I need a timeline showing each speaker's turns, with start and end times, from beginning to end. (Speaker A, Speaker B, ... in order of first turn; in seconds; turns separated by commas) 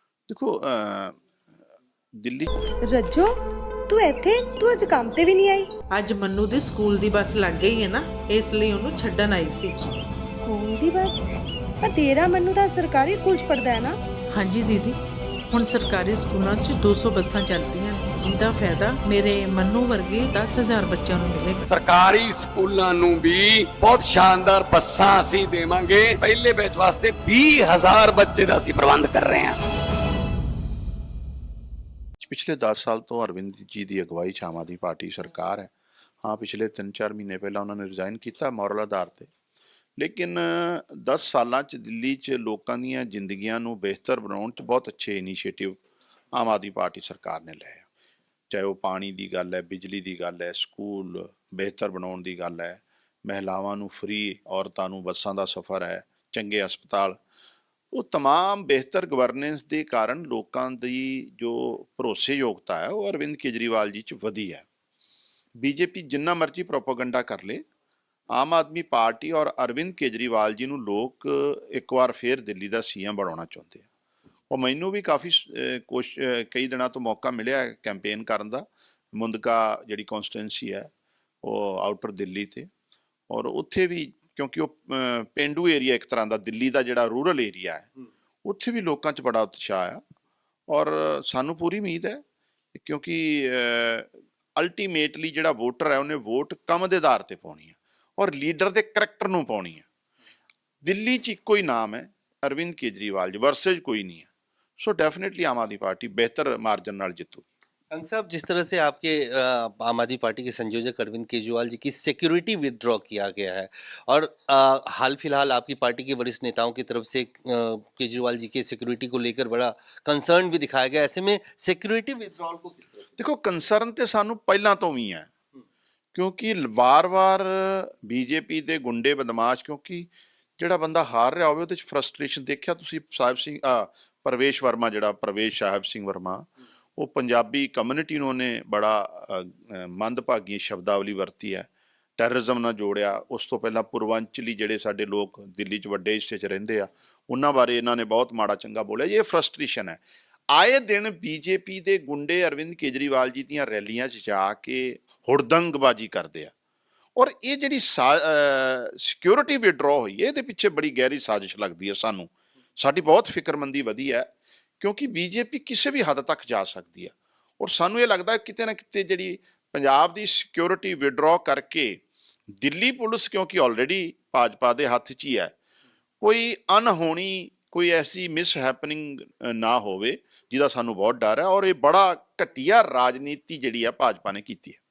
Speaker A: 0.3-1.2, Speaker A: 2.2-2.5, Speaker B: 2.9-3.4, Speaker B: 3.9-5.7, Speaker C: 5.9-9.8, Speaker B: 10.4-11.2, Speaker B: 11.8-14.0, Speaker C: 14.3-15.0, Speaker C: 15.5-21.6, Speaker D: 21.7-29.6, Speaker A: 32.2-39.3, Speaker A: 40.0-45.8, Speaker A: 46.3-47.9, Speaker A: 48.5-57.2, Speaker A: 57.9-64.7, Speaker A: 65.6-67.6, Speaker A: 68.3-73.9, Speaker A: 74.5-80.9, Speaker A: 81.4-82.7, Speaker A: 83.3-87.9, Speaker A: 88.5-90.0, Speaker A: 90.7-92.2, Speaker A: 92.8-99.9, Speaker A: 100.8-104.3, Speaker A: 104.8-107.5, Speaker E: 107.9-123.2, Speaker A: 123.2-125.3, Speaker A: 126.1-150.0, Speaker A: 150.5-156.5, Speaker A: 157.2-164.3, Speaker A: 164.8-175.5, Speaker A: 176.2-184.8